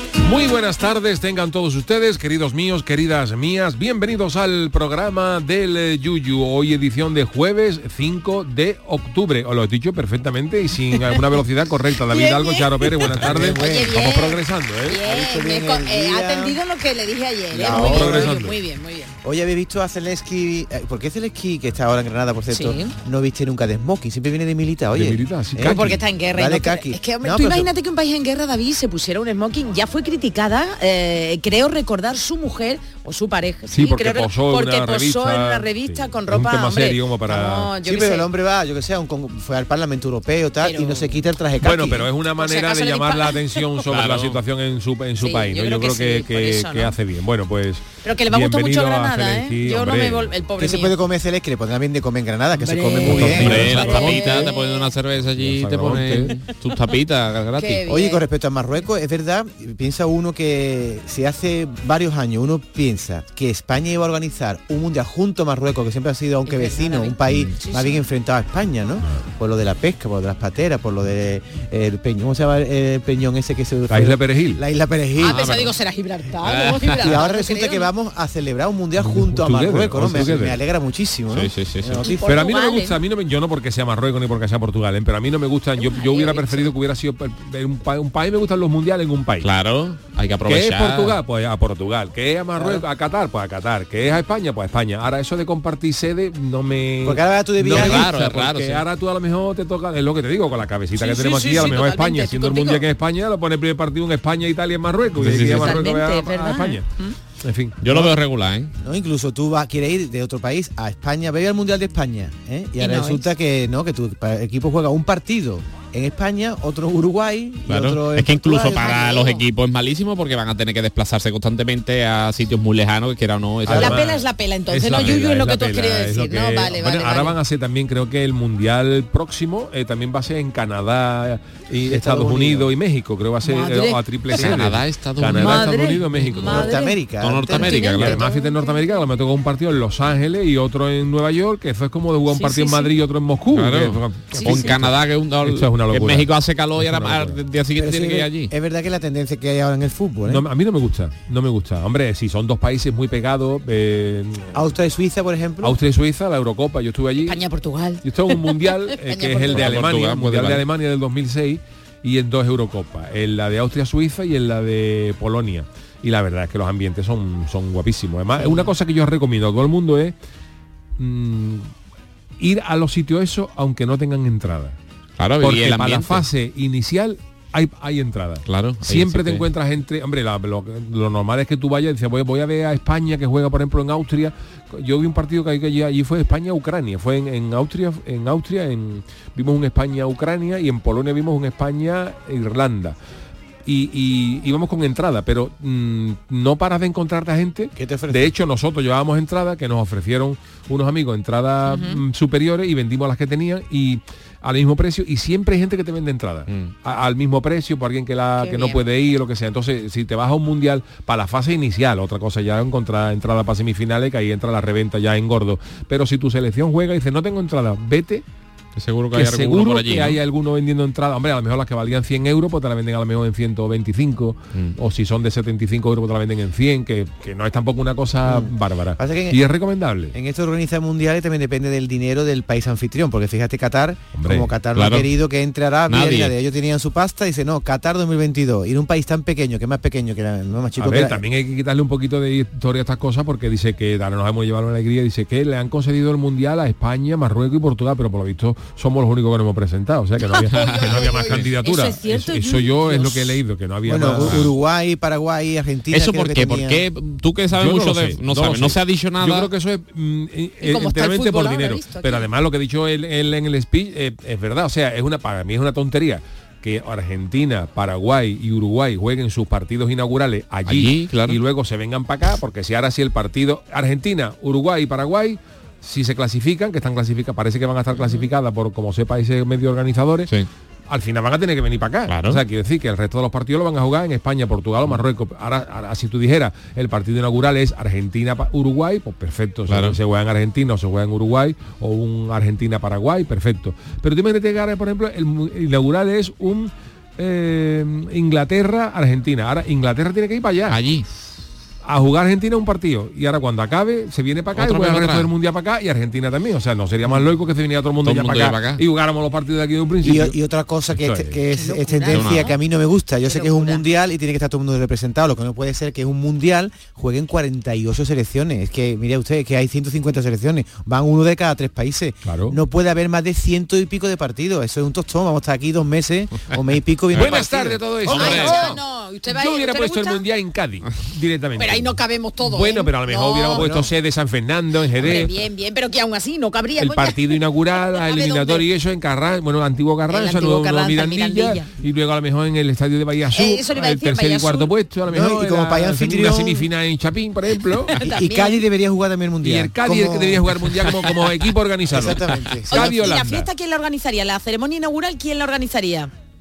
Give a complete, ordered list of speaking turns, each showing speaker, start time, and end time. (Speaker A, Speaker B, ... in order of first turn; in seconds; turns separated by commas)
Speaker A: 0.2-15.0, Speaker B: 12.1-19.1, Speaker C: 13.1-14.0, Speaker C: 15.0-16.6, Speaker C: 17.5-18.4, Speaker A: 17.6-18.6, Speaker C: 19.2-27.7, Speaker B: 22.5-22.9, Speaker A: 24.9-26.0, Speaker B: 25.6-38.3, Speaker A: 33.7-37.7, Speaker C: 37.8-42.1, Speaker B: 40.6-41.1, Speaker A: 41.6-50.3, Speaker B: 42.4-43.6, Speaker D: 43.9-44.4, Speaker B: 45.2-46.9, Speaker B: 48.0-51.0, Speaker C: 50.6-54.4, Speaker B: 52.5-54.9, Speaker A: 53.0-54.3, Speaker D: 53.1-57.8, Speaker A: 55.4-56.3, Speaker B: 57.6-58.2, Speaker C: 57.9-75.4, Speaker B: 66.5-68.0, Speaker A: 73.9-74.6, Speaker B: 75.2-77.9, Speaker D: 75.2-75.7, Speaker D: 76.4-77.0, Speaker C: 77.0-82.5, Speaker A: 79.0-80.6, Speaker D: 81.3-82.0, Speaker B: 82.0-83.0, Speaker A: 82.2-89.5, Speaker B: 85.8-86.7, Speaker D: 89.4-91.2, Speaker A: 90.5-106.8, Speaker C: 92.5-92.8, Speaker C: 97.0-98.1, Speaker D: 97.6-98.8, Speaker B: 101.0-102.8, Speaker D: 105.2-105.8, Speaker B: 105.5-107.1, Speaker A: 107.4-107.8, Speaker D: 107.8-108.7, Speaker C: 107.8-108.1, Speaker C: 108.8-119.2, Speaker B: 112.8-113.3, Speaker D: 117.7-124.0, Speaker B: 118.7-119.4, Speaker A: 123.7-136.7, Speaker B: 123.7-127.3, Speaker D: 124.9-125.2, Speaker C: 131.9-132.7, Speaker B: 133.4-134.0, Speaker D: 134.3-136.6, Speaker B: 135.4-137.0, Speaker C: 136.4-138.2, Speaker D: 137.2-138.2, Speaker B: 137.5-138.8, Speaker A: 138.0-147.4, Speaker B: 142.3-142.9, Speaker D: 143.5-148.5, Speaker B: 144.3-144.7, Speaker C: 147.7-150.4, Speaker A: 150.2-154.6, Speaker C: 154.5-155.8, Speaker A: 155.6-157.4, Speaker B: 157.2-159.8, Speaker A: 158.0-170.1, Speaker D: 159.5-160.6, Speaker A: 171.0-171.7, Speaker A: 172.4-174.8, Speaker D: 175.2-176.2, Speaker A: 175.4-192.9, Speaker D: 178.5-179.4, Speaker A: 193.7-218.2, Speaker C: 197.8-198.3, Speaker B: 201.7-202.0, Speaker D: 206.5-206.7, Speaker B: 208.4-208.8, Speaker D: 218.8-220.2, Speaker A: 219.1-230.1, Speaker C: 228.2-229.5, Speaker C: 230.1-241.2, Speaker A: 234.2-234.5, Speaker D: 234.7-235.1, Speaker D: 235.9-236.3, Speaker A: 240.8-254.5, Speaker B: 250.3-253.4, Speaker C: 253.8-256.8, Speaker D: 254.2-254.4, Speaker D: 255.9-259.5, Speaker A: 257.6-280.3, Speaker B: 260.6-262.3, Speaker D: 270.6-271.4, Speaker B: 278.0-278.3, Speaker A: 280.9-300.8, Speaker D: 282.1-282.4, Speaker D: 289.7-290.0, Speaker D: 300.7-301.1, Speaker A: 301.9-310.3, Speaker D: 304.5-305.3, Speaker D: 308.0-308.8, Speaker C: 310.0-328.3, Speaker A: 310.9-311.3, Speaker B: 311.5-312.6, Speaker D: 312.1-312.5, Speaker B: 313.2-313.8, Speaker A: 322.2-322.6, Speaker D: 327.1-328.8, Speaker A: 327.1-335.4, Speaker B: 328.1-330.2, Speaker B: 331.6-333.7, Speaker C: 333.6-333.9, Speaker B: 335.0-338.6, Speaker A: 336.8-348.0, Speaker B: 340.1-341.7, Speaker B: 343.3-344.7, Speaker C: 345.1-346.7, Speaker B: 348.0-348.6, Speaker C: 348.0-350.6, Speaker A: 349.4-353.5, Speaker C: 351.9-352.9, Speaker B: 352.7-356.1